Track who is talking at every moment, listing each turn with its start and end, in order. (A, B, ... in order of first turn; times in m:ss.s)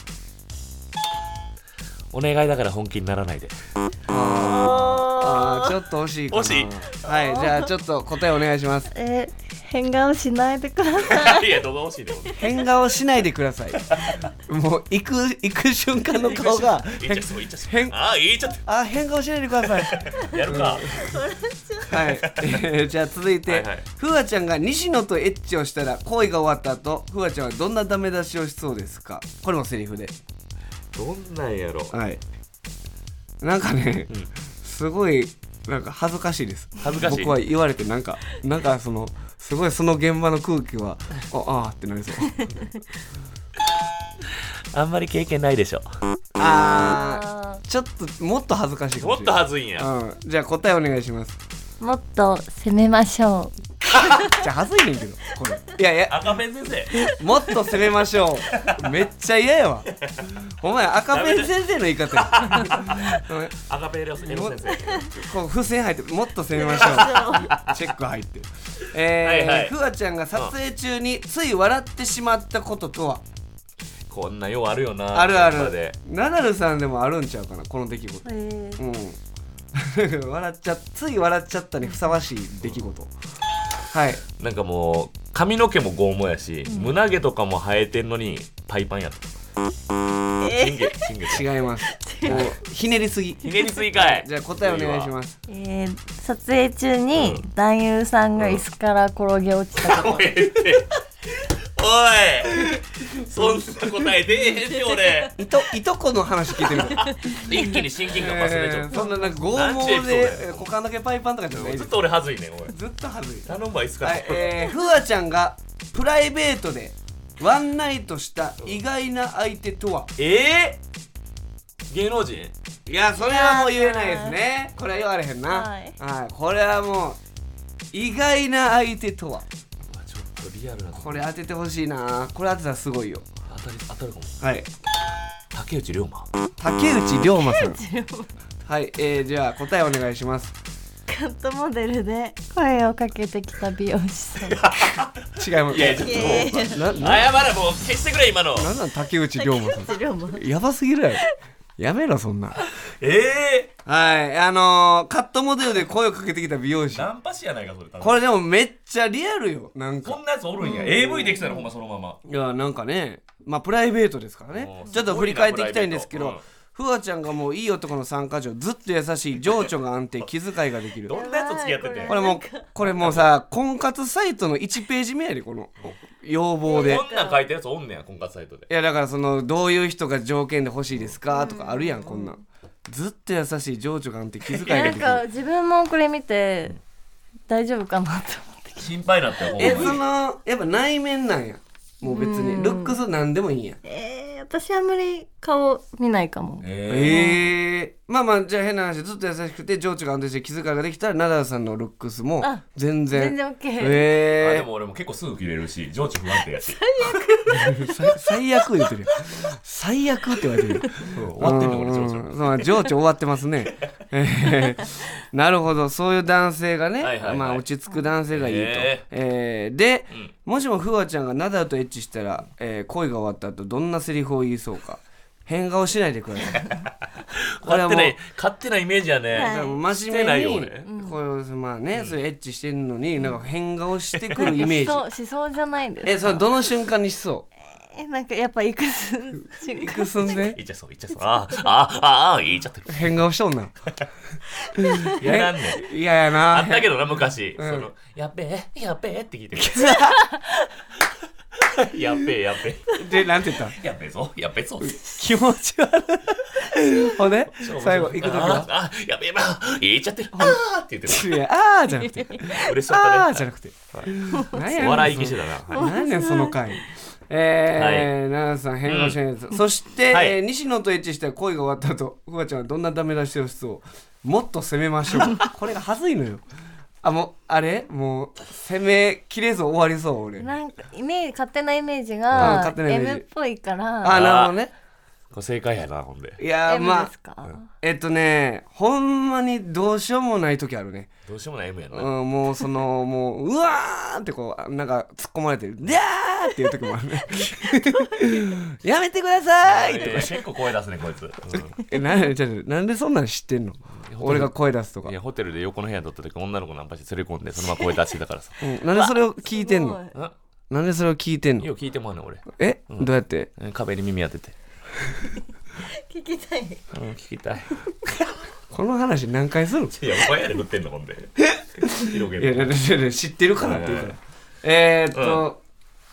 0:02.1-0:03.5 A
0:04.1-0:08.9 B
0:04.2-0:05.7 C
0:06.3-0:06.9 A
0:07.1-0:07.7 C
0:08.9-0:11.4 C
0:11.0-0:12.4 A
0:12.4-0:13.8 B
0:13.8-0:14.2 A
0:14.4-0:18.0 B
0:16.1-0:18.6 A
0:18.6-0:21.1 B
0:19.7-0:21.2 A
0:20.2-0:21.9 C
0:21.9-0:22.6 A
0:21.9-0:30.1 B
0:23.5-0:23.8 A
0:30.9-0:31.9 A
0:31.9-0:32.2 B
0:33.4-0:34.1 B
0:34.6-0:42.4 B
0:36.8-0:37.4 A
0:42.3-0:42.6 C
0:44.7-0:45.9 A
0:46.4-0:51.4 B
0:46.4-0:47.6 C
0:49.0-0:49.9 A
0:51.8-0:54.3 C
0:54.0-0:56.3 B
0:56.1-0:57.0 A
0:57.0-0:59.9 B
0:58.5-0:59.0 A
1:00.0-1:00.3 A
1:00.4-1:03.5 B
1:01.1-1:01.5 A
1:02.1-1:05.3 A
1:04.2-1:13.2 B
1:06.5-1:07.5 C
1:06.8-1:07.8 A
1:09.2-1:09.7 A
1:14.1-1:16.0 A
1:15.1-1:18.2 B
1:18.2-1:18.8 C
1:18.8-1:19.2 B
1:19.7-1:23.1 B
1:23.9-1:24.2 B
1:24.4-1:29.3 A
1:30.4-1:31.0 C
1:30.4-1:31.5 A
1:31.3-1:35.4 B
1:31.9-1:32.4 C
1:32.2-1:32.5 A
1:33.4-1:35.1 A
1:35.5-1:40.3 C
1:37.1-1:37.4 A
1:38.4-1:38.6 A
1:39.8-1:45.4 A
1:43.4-1:44.0 B
1:44.7-1:45.3 C
1:45.4-1:47.6 B
1:46.6-1:50.7 A
1:47.0-1:47.8 C
1:48.1-1:51.9 B
1:48.9-1:49.3 C
1:51.5-1:52.7 A
1:52.7-2:00.1 B
1:53.4-1:54.6 A
2:00.2-2:00.8 A
2:01.9-2:02.5 A
2:02.8-2:07.2 B
2:03.2-2:04.4 C
2:05.5-2:06.0 C
2:07.9-2:09.4 B
2:09.8-2:11.2 A
2:10.9-2:13.3 B
2:13.5-2:14.4 A
2:14.4-2:14.7 B
2:15.5-2:16.3 A
2:16.6-2:17.8 B
2:17.4-2:18.3 C
2:18.6-2:20.5 B
2:21.1-2:24.8 C
2:24.5-2:28.7 A
2:25.4-2:27.3 B
2:26.0-2:26.9 C
2:28.6-2:31.2 B
2:29.4-2:30.4 C
2:31.8-2:32.6 B
2:32.6-2:33.7 A
2:33.8-2:37.1 B
2:36.9-2:38.2 A
2:38.0-2:41.4 B
2:40.0-2:42.2 A
2:40.6-2:41.6 C
2:42.2-2:51.2 B
2:44.5-2:46.4 A
2:51.0-2:52.2 A
2:51.1-2:52.7 C
2:52.0-2:57.0 B
2:52.8-2:53.3 A
2:56.6-2:57.4 C
2:56.7-2:58.7 A
2:58.7-3:05.2 B
3:01.3-3:02.4 C
3:04.6-3:06.8 C
3:07.5-3:08.9 C
3:08.8-3:10.0 A
3:09.5-3:10.0 C
3:09.6-3:13.8 B
3:12.0-3:13.0 C
3:13.8-3:17.4 C
3:16.6-3:17.3 A
3:16.9-3:24.7 B
3:22.4-3:24.1 C
3:24.4-3:27.2 A
3:26.6-3:27.9 C
3:27.5-3:46.7 B
3:30.8-3:31.1 C
3:31.0-3:32.7 A
3:37.0-3:37.6 A
3:38.3-3:39.0 A
3:46.6-3:50.8 A
3:47.6-3:48.2 B
3:49.3-3:49.8 C
3:49.3-3:55.0 B
3:50.8-3:51.2 C
3:54.1-3:54.6 A
3:54.4-3:56.4 C
3:56.0-3:57.4 B
3:57.7-4:00.4 C
3:59.7-4:00.6 B
4:00.3-4:03.1 A
4:02.9-4:03.7 B
4:04.6-4:05.1 C
4:04.8-4:06.9 B
4:05.0-4:05.8 A
4:06.5-4:10.0 A
4:07.6-4:07.9 B
4:09.5-4:10.2 B
4:11.6-4:13.0 A
4:13.0-4:13.8 B
4:13.7-4:15.1 A
4:14.8-4:18.7 B
4:17.5-4:21.4 A
4:20.3-4:36.4 B
4:21.9-4:22.6 C
4:22.5-4:25.9 A
4:24.3-4:24.6 C
4:25.7-4:26.6 C
4:27.8-4:28.1 A
4:28.8-4:29.2 A
4:30.1-4:30.4 A
4:37.0-4:40.5 B
4:40.4-4:44.2 C
4:42.3-4:42.6 A
4:42.3-4:43.2 B
4:44.0-4:44.7 B
4:44.1-4:44.5 A
4:45.3-4:46.4 A
4:46.4-4:47.1 B
4:46.6-4:47.7 C
4:47.8-4:51.1 B
4:51.3-4:52.1 A
4:51.9-5:00.4 B
4:57.8-4:58.3 C
4:59.6-5:01.8 A
5:01.5-5:05.1 B
5:04.0-5:04.5 A
5:05.0-5:08.6 A
5:08.6-5:10.0 B
5:09.0-5:10.1 C
5:10.7-5:11.7 B
5:11.6-5:14.5 A
5:12.5-5:13.5 B
5:15.8-5:16.8 C
5:16.9-5:17.8 A
5:18.7-5:19.9 B
5:19.9-5:22.8 A
5:21.4-5:25.6 B
5:23.6-5:24.1 A
5:25.1-5:25.4 A